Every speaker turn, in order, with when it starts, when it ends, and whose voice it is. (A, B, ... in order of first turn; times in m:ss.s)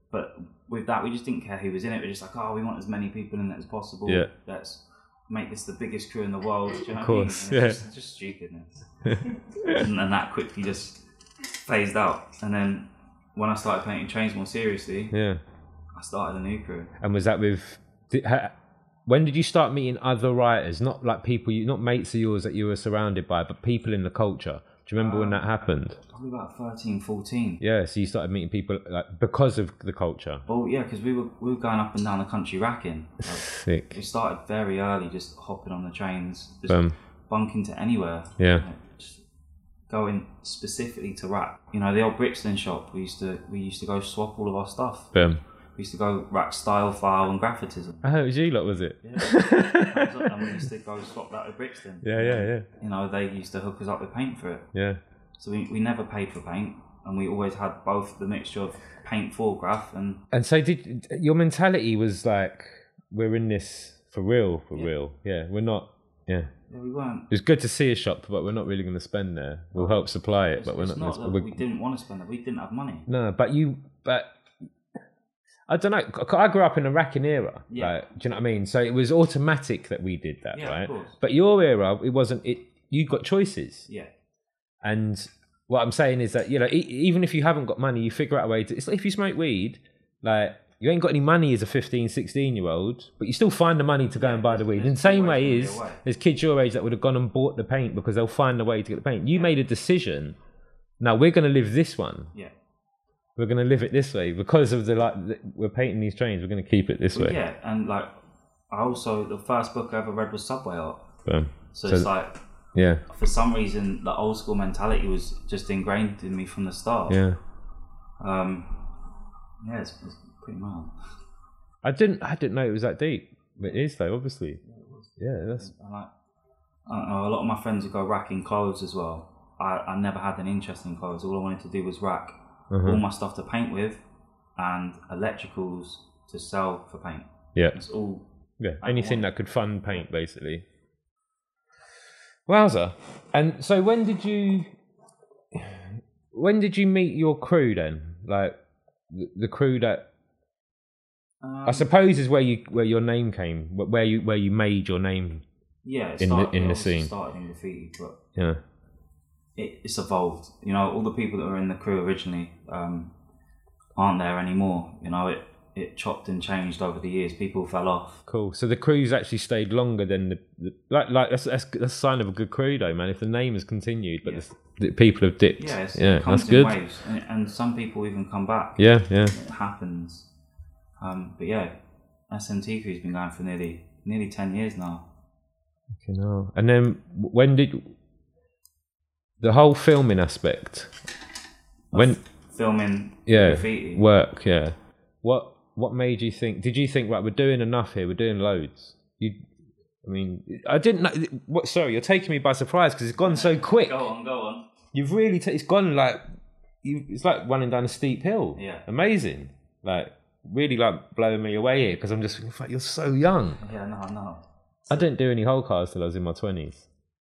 0:00.1-0:11.0 A
0:06.9-0:07.8 B
0:09.0-0:09.8 B
0:11.6-0:15.1 A
0:15.1-0:15.4 B
0:15.9-0:16.9 A
0:17.0-0:18.5 B
0:19.0-0:26.0 B
0:25.0-0:25.5 A
0:26.0-0:27.6 A
0:27.6-0:30.4 B
0:30.4-0:39.2 A
0:33.4-0:34.0 B
0:36.7-0:37.0 B
0:38.4-0:38.6 B
0:39.9-0:45.1 A
0:45.1-0:45.4 B
0:45.8-0:48.1 A
0:48.0-0:50.1 B
0:49.0-0:54.7 A
0:52.0-0:52.6 B
0:54.7-0:55.0 B
0:55.4-1:00.2 A
1:00.3-1:06.5 B
1:06.7-1:07.3 A
1:07.3-1:11.6 B
1:09.7-1:13.1 A
1:13.1-1:14.3 B
1:15.7-1:23.9 B
1:17.7-1:18.0 A
1:20.5-1:21.2 A
1:24.8-1:40.4 B
1:34.2-1:36.0 A
1:39.3-1:39.6 A
1:41.0-1:42.3 B
1:43.4-1:47.4 B
1:47.1-1:48.1 A
1:48.7-1:51.0 A
1:51.2-1:52.1 B
1:51.7-1:52.3 A
1:52.7-1:53.0 B
1:53.1-1:57.2 A
1:57.1-1:57.4 B
1:58.2-1:58.9 A
1:59.6-2:00.9 A
2:01.8-2:04.6 B
2:04.6-2:06.1 A
2:05.2-2:05.7 B
2:06.9-2:14.0 A
2:12.7-2:13.0 B
2:14.6-2:18.2 A
2:18.6-2:20.6 B
2:18.8-2:19.3 A
2:22.5-2:24.7 B
2:25.5-2:28.6 B
2:29.1-2:30.1 B
2:31.4-2:31.9 A
2:31.6-2:35.4 B
2:35.8-2:38.2 A
2:36.2-2:37.1 B
2:38.3-2:38.6 B
2:39.6-2:43.1 A
2:44.0-2:48.2 A
2:48.3-2:56.8 B
2:55.6-3:00.3 A
2:58.8-2:59.3 B
3:01.0-3:01.7 A
3:02.3-3:05.0 A
3:06.0-3:07.9 B
3:09.4-3:10.9 B
3:11.9-3:14.1 A
3:11.9-3:12.2 B
3:13.3-3:19.4 B
3:20.0-3:24.0 B
3:23.2-3:24.6 A
3:24.9-3:26.2 B
3:26.8-3:33.6 B
3:28.5-3:28.9 A
3:33.6-3:35.0 A
3:34.9-3:36.9 B